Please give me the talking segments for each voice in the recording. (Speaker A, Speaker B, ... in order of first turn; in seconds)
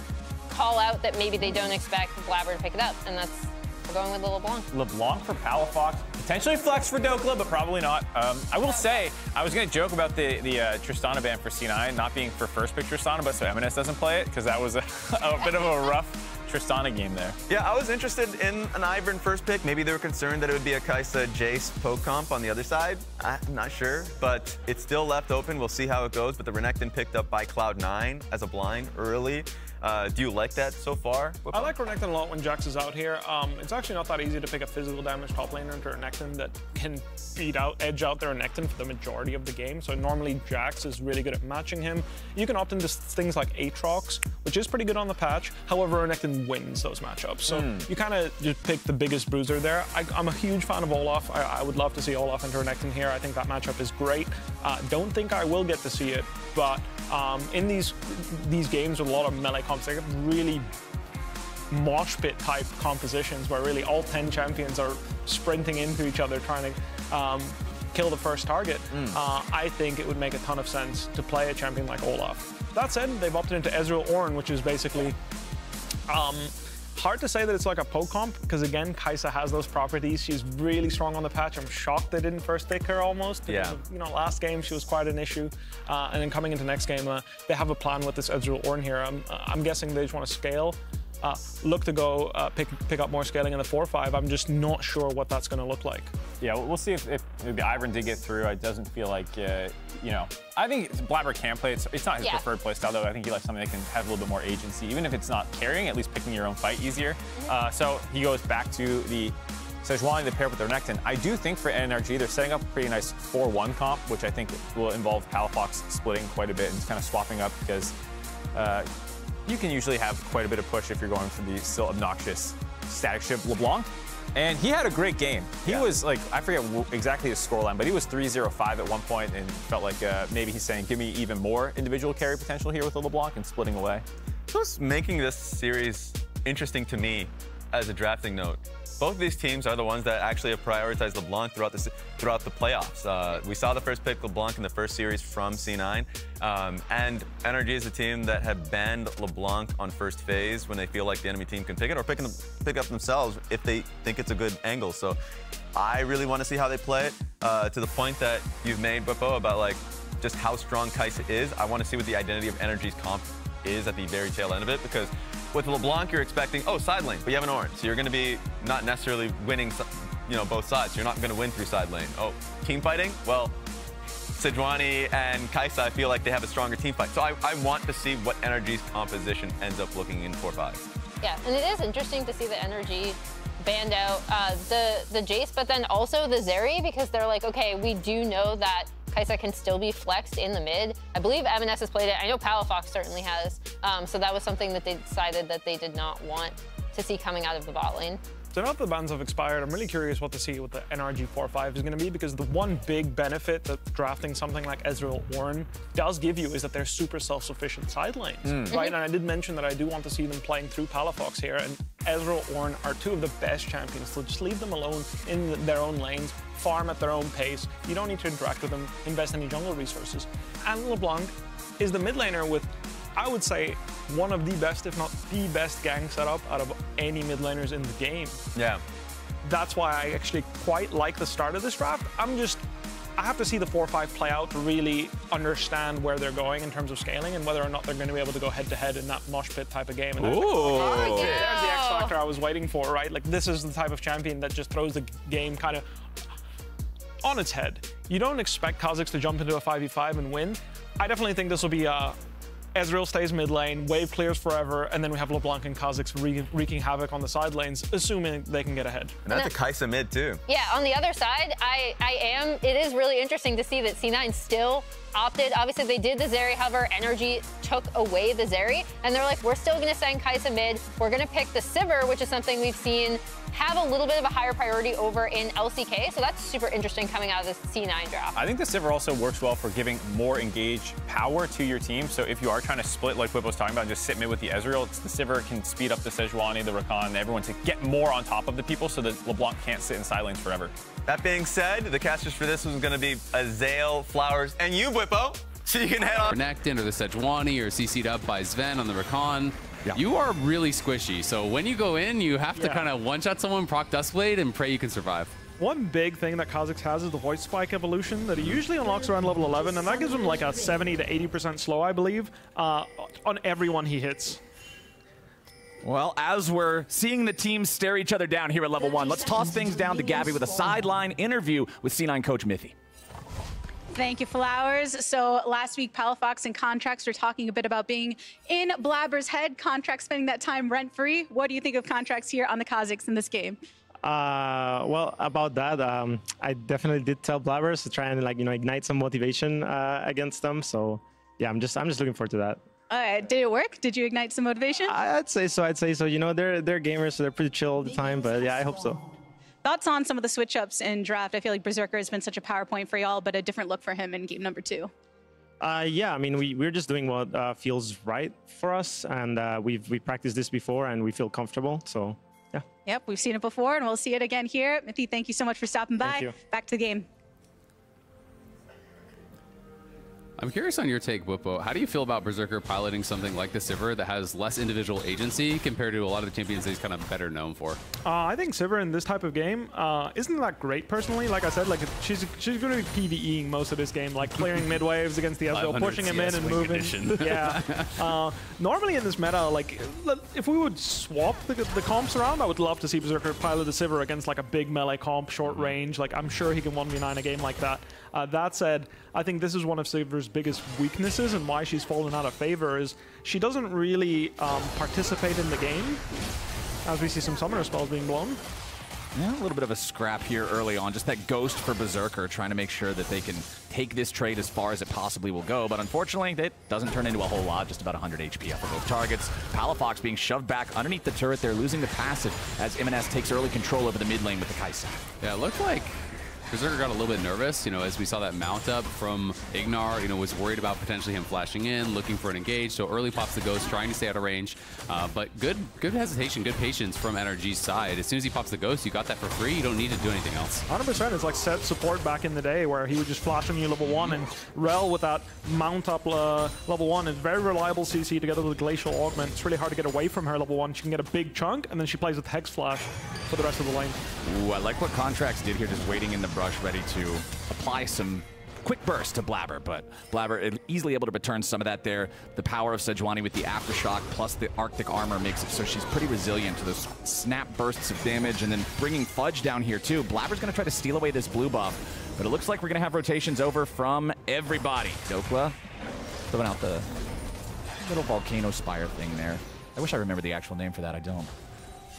Speaker A: 0.5-4.7, 102.2-102.4, 181.2-198.2, 208.7-209.0, 240.6-242.2, 260.5-278.4
Speaker B: 4.7-17.4, 47.5-47.9, 96.4-117.9, 118.5-118.9, 119.5-134.0, 208.4-208.8, 278.3-290.7
Speaker C: 17.5-31.7, 83.5-83.8, 134.5-155.2, 155.7-173.5, 174.4-180.9, 228.5-228.8, 259.2-260.4, 291.1-296.3
Speaker D: 31.5-60.7, 61.7-75.2, 76.1-96.1, 198.5-228.4, 229.4-232.6, 233.2-245.8, 247.2-252.2, 252.7-259.2
Speaker E: 296.3-305.3, 370.4-377.8, 385.5-388.1, 425.2-425.9, 426.5-440.6
Speaker F: 302.6-302.9, 305.6-314.4, 378.0-406.0, 406.8-408.4, 440.7-454.0
Speaker G: 315.8-322.7, 409.1-425.0, 454.2-475.6, 476.3-476.9, 477.8-481.3
Speaker H: 323.9-333.6, 342.9-344.9, 349.6-354.9, 362.9-367.1
Speaker I: 334.0-342.6, 344.9-349.0, 355.6-362.6, 366.0-366.4